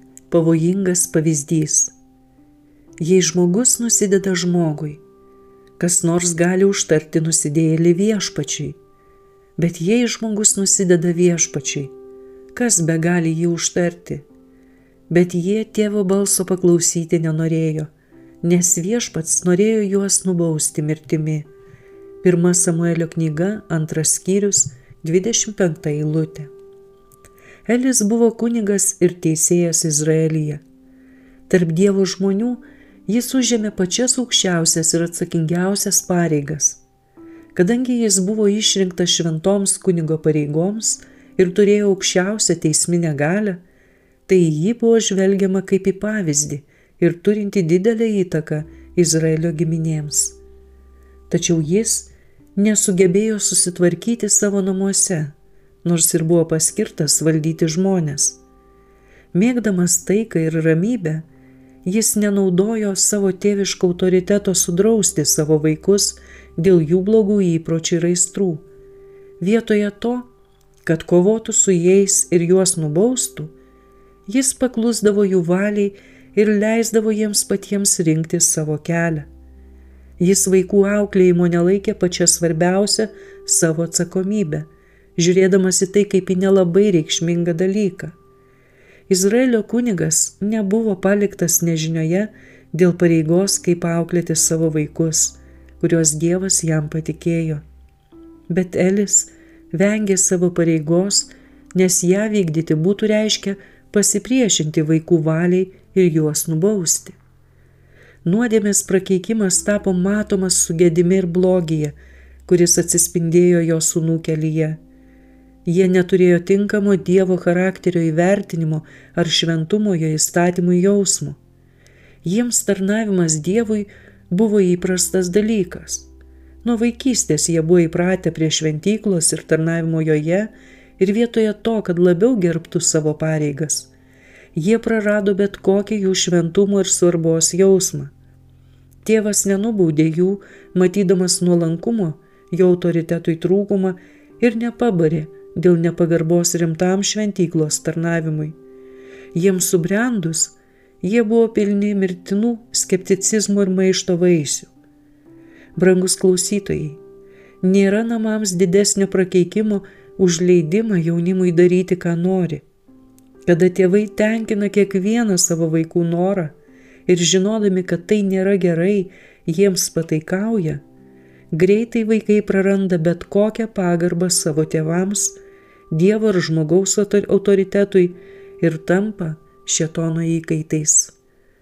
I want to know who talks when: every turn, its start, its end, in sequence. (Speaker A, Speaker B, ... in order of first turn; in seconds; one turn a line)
Speaker A: 0.3-1.9
Speaker A: 3.0-5.0
Speaker A: 5.8-8.8
Speaker A: 9.6-11.9
Speaker A: 12.5-14.2
Speaker A: 15.1-17.9
Speaker A: 18.4-21.5
Speaker A: 22.2-26.5
Speaker A: 27.6-30.6
Speaker A: 31.5-36.8
Speaker A: 37.5-43.6
Speaker A: 44.3-50.4
Speaker A: 51.3-58.4
Speaker A: 59.3-61.2
Speaker A: 61.8-68.6
Speaker A: 69.4-70.3
Speaker A: 70.8-73.5
Speaker A: 74.3-79.3
Speaker A: 80.2-88.1
Speaker A: 89.1-97.6
Speaker A: 98.5-107.2
Speaker A: 108.2-112.0
Speaker A: 112.5-114.8
Speaker A: 115.7-121.4
Speaker A: 122.2-126.1
Speaker A: 126.6-133.9
Speaker A: 134.5-138.1
Speaker A: 139.0-148.6
Speaker A: 149.3-154.7
Speaker A: 155.8-157.0
Speaker A: 157.6-162.6
Speaker A: 163.4-166.5
Speaker A: 167.1-170.8
Speaker A: 171.5-175.4
Speaker A: 175.9-181.1